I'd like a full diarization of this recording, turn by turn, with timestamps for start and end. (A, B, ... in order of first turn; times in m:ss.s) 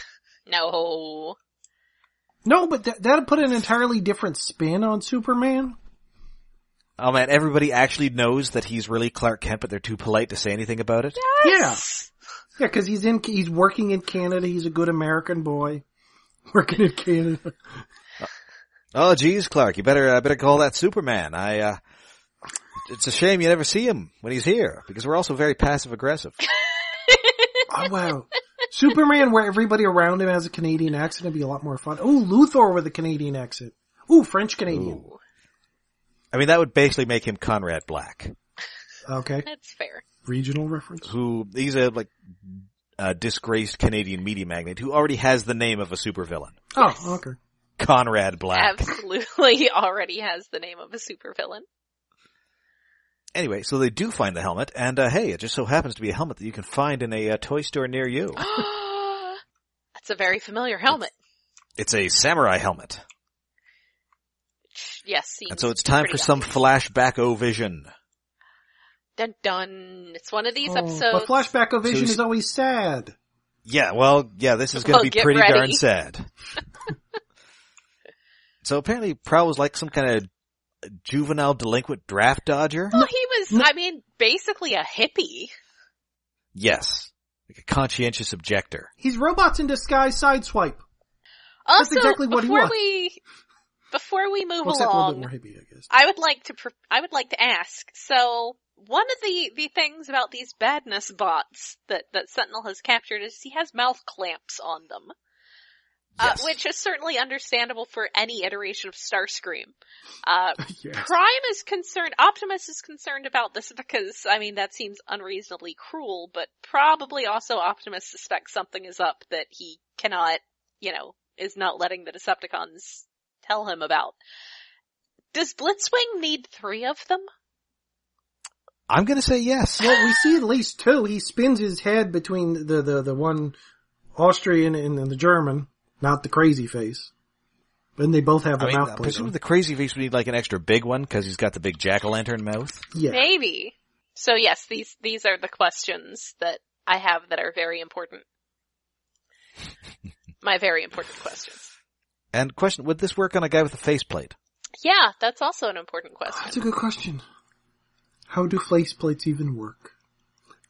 0:00.5-0:01.4 A
0:02.4-0:05.8 B
0:07.0-0:11.2 C
0:11.2-0:12.1 A
0:11.4-0:11.8 B
0:12.6-0:15.8 B
0:16.5-0:17.8 B
0:18.9-0:21.8 C
0:22.8-0:26.4 C
0:26.9-0:27.7 A
0:27.7-0:35.0 B
0:34.7-0:35.1 C
0:36.3-0:38.3 C
0:39.0-0:39.5 B
0:39.4-0:40.0 A
0:40.2-0:41.1 B
0:41.0-0:46.6 C
0:46.7-0:47.4 B
0:46.8-0:47.2 A
0:47.8-0:48.8 C
0:48.5-0:51.6 A
0:53.3-0:58.4 C
0:58.4-0:59.4 A
0:59.9-1:01.1 A
1:01.8-1:03.0 C
1:04.7-1:06.6 A
1:05.5-1:07.9 C
1:09.2-1:11.5 A
1:10.6-1:13.1 B
1:11.8-1:12.2 C
1:13.6-1:16.3 C
1:14.7-1:15.8 A
1:18.6-1:20.3 C
1:20.9-1:22.9 C
1:22.9-1:23.7 B
1:22.9-1:25.5 A
1:26.5-1:28.9 C
1:29.0-1:30.8 B
1:31.6-1:33.2 A
1:31.8-1:32.7 B
1:33.9-1:35.3 A
1:34.6-1:35.9 B
1:35.9-1:45.1 A
1:46.2-1:46.6 C
1:46.2-2:04.2 A
1:50.6-1:51.1 B
2:05.3-2:07.3 A
2:08.9-2:10.0 C
2:09.8-2:13.6 B
2:14.1-2:17.1 B
2:18.0-2:19.3 B
2:18.6-2:22.9 C
2:22.9-2:23.3 B
2:23.1-2:28.2 A
2:30.4-2:31.7 A
2:32.3-2:34.3 C
2:34.8-2:36.6 A
2:36.3-2:37.2 B
2:38.3-2:39.9 B